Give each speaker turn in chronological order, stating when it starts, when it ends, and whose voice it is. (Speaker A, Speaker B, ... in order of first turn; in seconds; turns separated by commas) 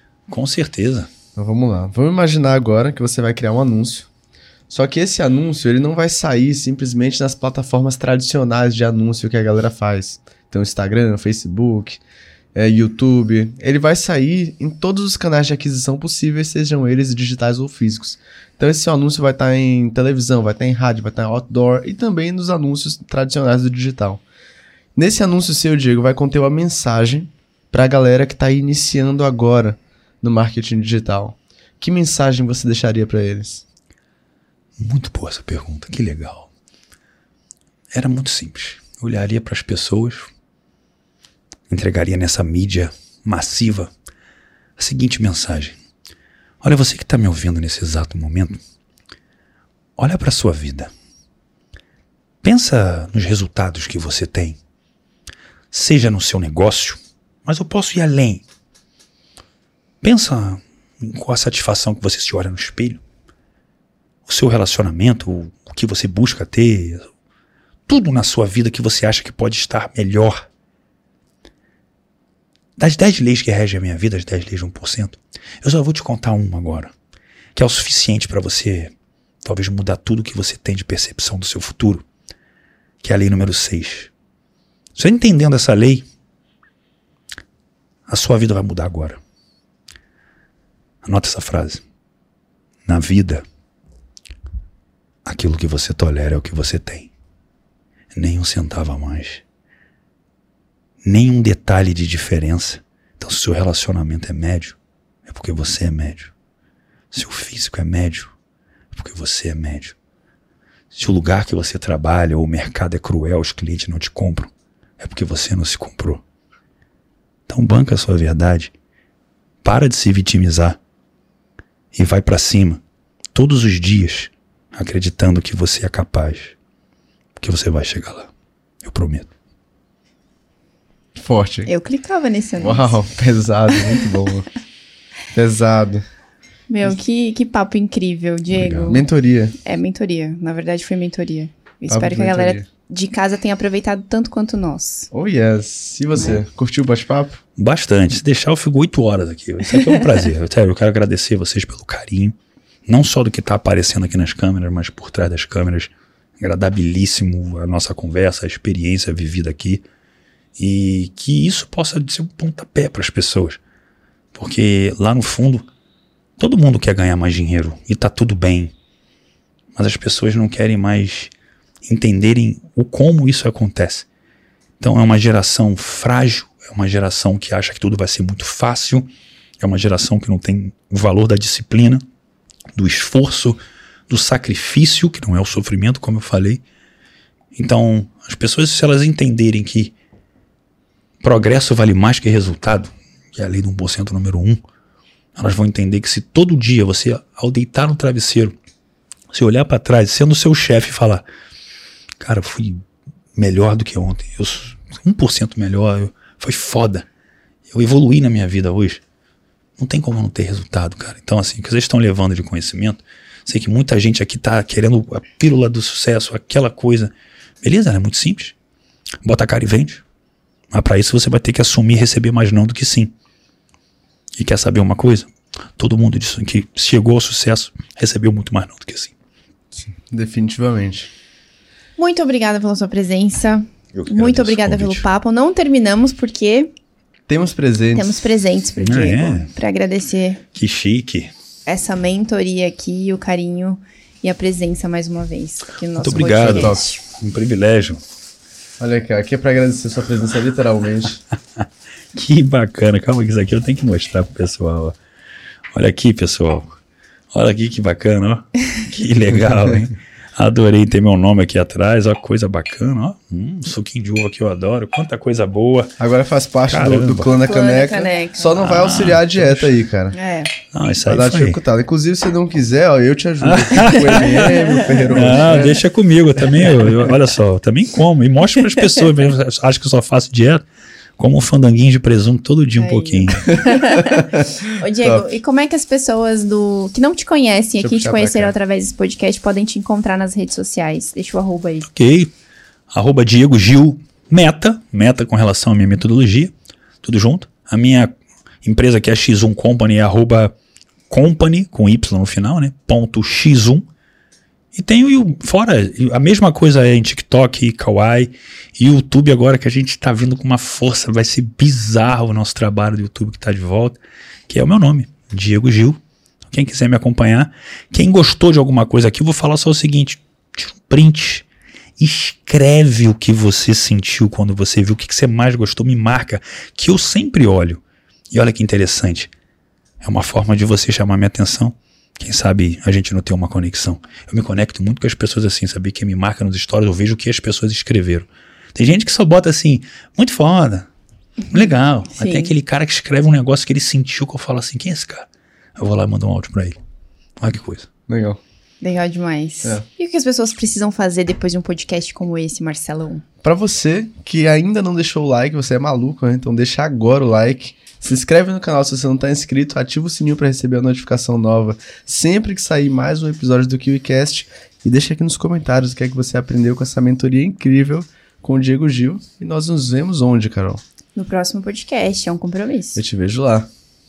Speaker A: 0.3-1.1, Speaker B: 1.4-4.1, Speaker B: 4.7-12.0, Speaker B: 12.5-24.2, Speaker B: 24.9-33.6, Speaker A: 34.8-36.5, Speaker A: 37.9-40.3, Speaker A: 41.7-43.9, Speaker A: 44.8-45.8, Speaker A: 46.6-48.6, Speaker A: 50.0-50.9, Speaker A: 52.4-54.6, Speaker A: 55.7-58.4, Speaker A: 60.0-63.0, Speaker A: 64.2-67.0, Speaker A: 67.9-70.5, Speaker A: 72.8-76.9, Speaker A: 77.5-78.9, Speaker A: 79.4-82.0, Speaker A: 83.0-84.1, Speaker A: 85.0-86.0, Speaker A: 88.1-89.2, Speaker A: 91.0-91.8, Speaker A: 92.8-93.4, Speaker A: 95.2-97.1, Speaker A: 98.1-99.4, Speaker A: 101.0-106.3, Speaker A: 107.1-108.3, Speaker A: 108.9-109.9, Speaker A: 110.9-116.2, Speaker A: 117.5-118.7, Speaker A: 119.6-120.8, Speaker A: 121.9-122.8, Speaker A: 123.3-126.5, Speaker A: 127.4-128.3, Speaker A: 128.8-129.3, Speaker B: 131.2-131.7, Speaker C: 131.7-133.0, Speaker B: 132.6-134.5, Speaker B: 135.3-136.0, Speaker C: 136.7-139.0, Speaker A: 138.5-138.9, Speaker B: 138.9-139.5, Speaker C: 139.6-145.1, Speaker B: 141.9-142.7, Speaker B: 145.1-147.4, Speaker A: 147.6-159.8, Speaker A: 160.6-163.6, Speaker A: 164.3-165.6, Speaker A: 166.4-168.7, Speaker A: 169.8-171.3, Speaker A: 171.8-174.1, Speaker A: 174.8-179.1, Speaker A: 179.6-182.0, Speaker A: 182.7-186.6, Speaker A: 187.5-189.9, Speaker A: 191.2-194.6, Speaker A: 195.3-198.5, Speaker A: 199.3-201.2, Speaker A: 202.2-202.8, Speaker A: 203.3-207.1, Speaker A: 207.7-209.0, Speaker A: 209.8-217.1, Speaker A: 217.6-218.5, Speaker A: 219.2-220.0, Speaker A: 220.7-223.1, Speaker A: 224.3-229.1, Speaker B: 229.8-231.1, Speaker C: 232.0-236.7, Speaker A: 233.9-235.0, Speaker B: 237.3-238.2, Speaker C: 237.9-240.4, Speaker A: 238.8-239.5, Speaker A: 240.5-241.3, Speaker C: 241.7-247.0, Speaker A: 246.0-248.0, Speaker B: 246.4-246.8, Speaker B: 248.8-251.2, Speaker A: 252.1-254.9, Speaker A: 255.7-256.8, Speaker A: 257.3-266.0, Speaker B: 266.0-270.1, Speaker A: 266.7-267.3, Speaker C: 267.4-268.6, Speaker A: 268.6-269.7, Speaker C: 270.1-270.5, Speaker A: 270.7-271.6, Speaker B: 271.1-275.8, Speaker A: 273.4-280.6, Speaker C: 274.2-274.9, Speaker B: 276.4-277.1, Speaker A: 281.2-283.6, Speaker C: 282.8-291.9, Speaker B: 283.6-284.4, Speaker B: 287.8-288.5, Speaker A: 291.9-292.3, Speaker A: 292.9-296.5, Speaker A: 297.0-298.1, Speaker A: 298.6-300.5, Speaker A: 301.1-303.8, Speaker A: 304.7-321.4, Speaker A: 322.0-329.3, Speaker A: 330.0-340.9, Speaker C: 341.4-342.5, Speaker A: 341.5-346.8, Speaker A: 347.4-347.9, Speaker B: 348.1-348.4, Speaker C: 348.8-353.2, Speaker B: 353.4-370.8, Speaker C: 371.1-373.0, Speaker B: 372.9-373.7